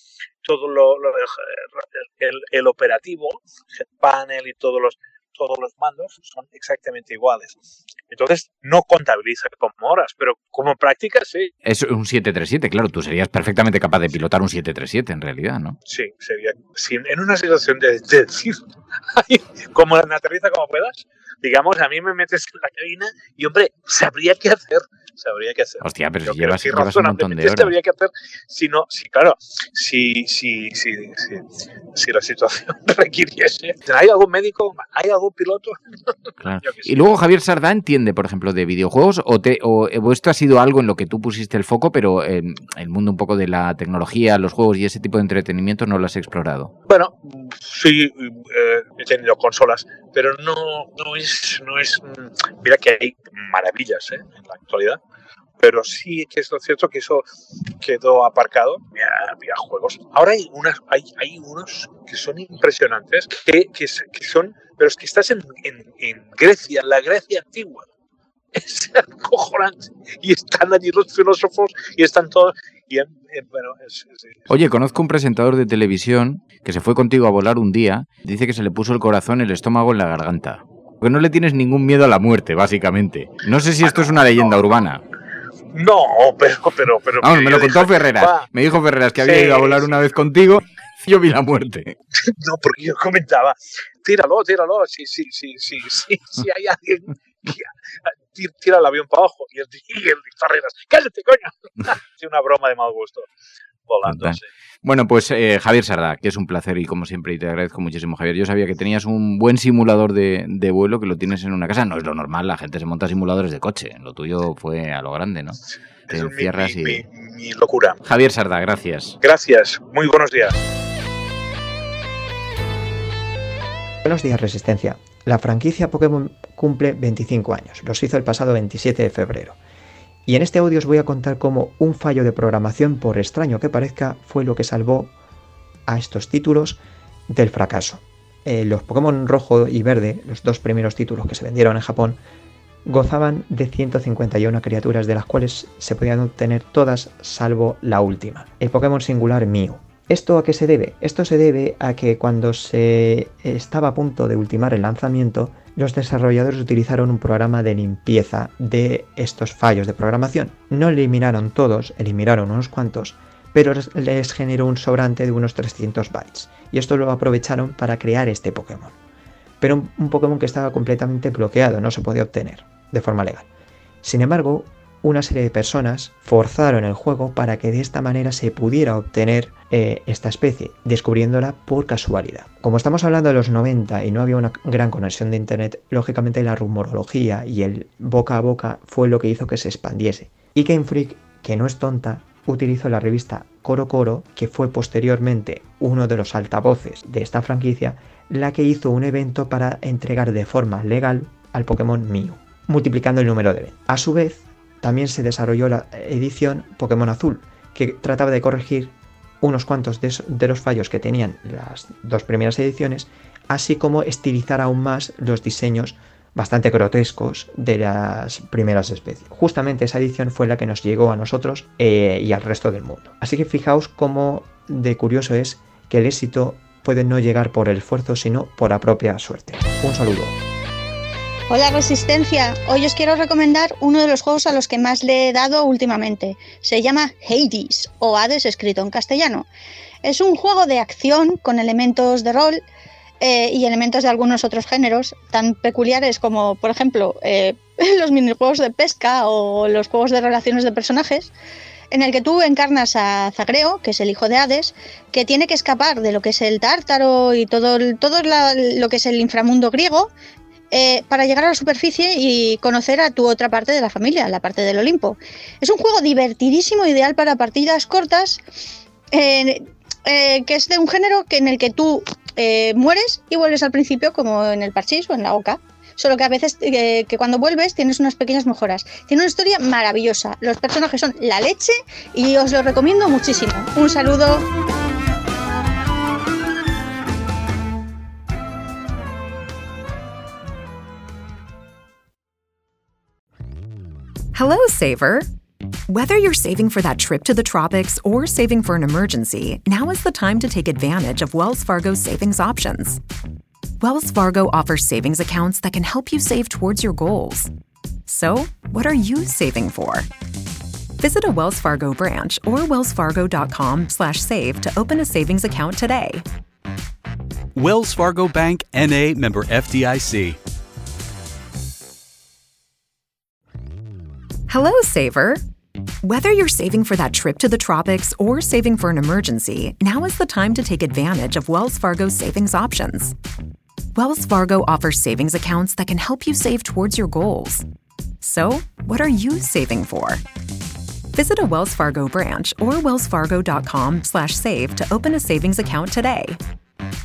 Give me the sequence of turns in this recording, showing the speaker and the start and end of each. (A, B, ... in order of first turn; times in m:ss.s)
0:00.4-0:07.6 A
0:08.1-0:11.5 A
0:11.6-0:15.8 B
0:15.9-0:37.0 A
0:25.8-0:27.8 B
0:36.4-0:46.7 B
0:46.9-0:55.0 A
0:55.6-0:57.3 A
0:57.8-1:07.9 A
1:08.5-1:14.5 A
1:14.5-1:25.0 B
1:23.8-1:24.6 A
1:25.7-1:28.4 A
1:27.2-1:31.9 B
1:29.2-1:30.0 A
1:32.2-1:37.7 A
1:38.3-1:43.3 A
1:43.9-1:44.4 A
1:44.0-1:57.0 B
1:56.1-1:58.0 A
1:58.0-1:59.2 B
1:59.2-2:00.6 A
2:04.0-2:09.6 C
2:10.3-2:15.1 C
2:15.9-2:22.2 C
2:22.8-2:48.9 C
2:49.6-2:53.5 C
2:54.0-3:50.4 C
3:51.5-3:59.5 D
4:00.0-4:02.6 D
4:03.2-4:11.3 D
4:11.9-4:20.1 D
4:20.7-4:28.4 D
4:29.1-4:44.5 D
4:54.3-4:55.3 E
4:55.9-5:03.0 E
5:03.8-5:07.5 E
5:08.0-5:10.1 E
5:11.0-5:16.2 E
5:17.5-5:20.4 F
5:24.5-5:25.4 E
5:26.0-5:33.1 E
5:33.9-5:37.6 E
5:38.2-5:40.2 E
5:41.1-5:46.4 E